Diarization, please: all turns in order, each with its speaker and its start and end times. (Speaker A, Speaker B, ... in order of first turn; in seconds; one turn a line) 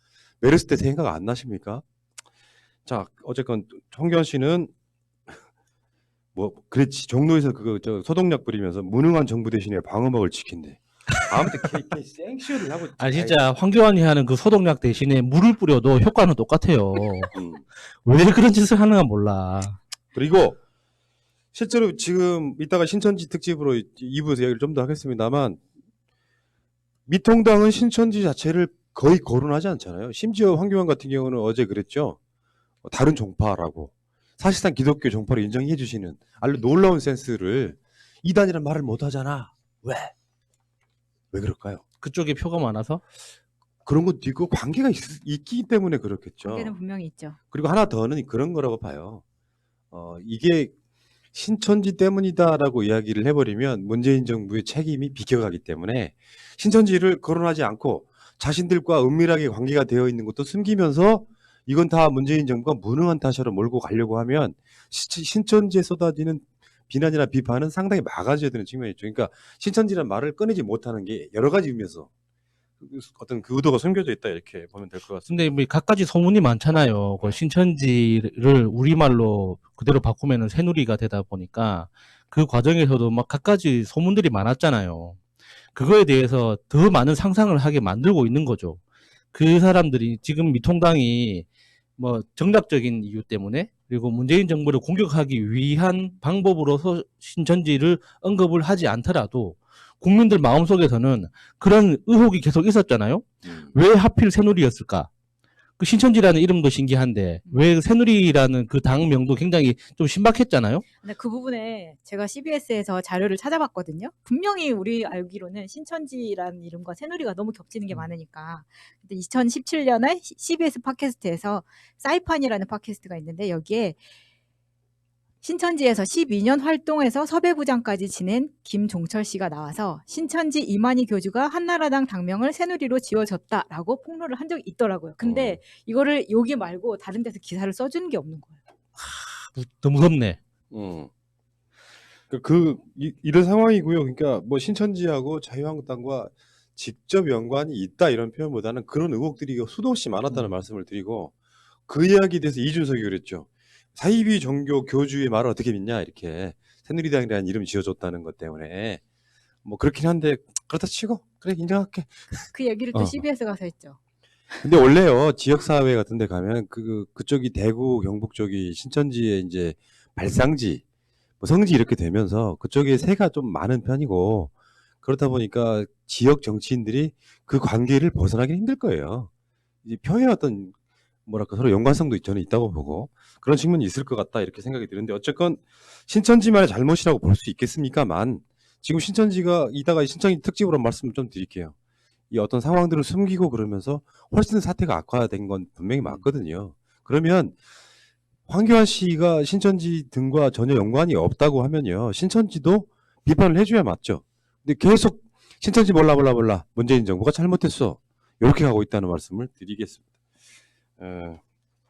Speaker A: 0.4-1.8
Speaker A: 2.9-4.7
Speaker A: 6.3-13.4
Speaker B: 13.0-19.8
Speaker A: 17.3-17.6
Speaker A: 20.1-20.6
Speaker A: 21.5-25.6
Speaker A: 27.1-32.2
Speaker A: 32.8-40.1
Speaker A: 41.3-41.8
Speaker B: 42.0-43.0
Speaker A: 43.8-46.8
Speaker C: 46.5-47.4
Speaker A: 47.5-49.2
Speaker A: 49.9-50.7
Speaker A: 51.3-72.1
Speaker A: 72.8-75.5
Speaker B: 75.3-85.2
Speaker B: 85.7-88.8
Speaker B: 89.3-91.5
Speaker B: 92.0-105.1
Speaker A: 103.5-103.7
Speaker B: 105.8-110.8
Speaker C: 111.0-124.0
Speaker C: 125.4-138.6
Speaker A: 135.2-135.6
Speaker B: 139.0-140.4
Speaker A: 140.7-141.1
Speaker A: 142.3-151.3
Speaker A: 151.9-159.0
Speaker A: 159.6-163.2
Speaker C: 162.5-164.0
Speaker A: 164.6-170.8
Speaker A: 171.4-179.3
Speaker A: 179.8-180.7
Speaker A: 181.2-191.7
Speaker A: 192.3-197.6
Speaker A: 198.5-210.0
Speaker A: 211.0-211.4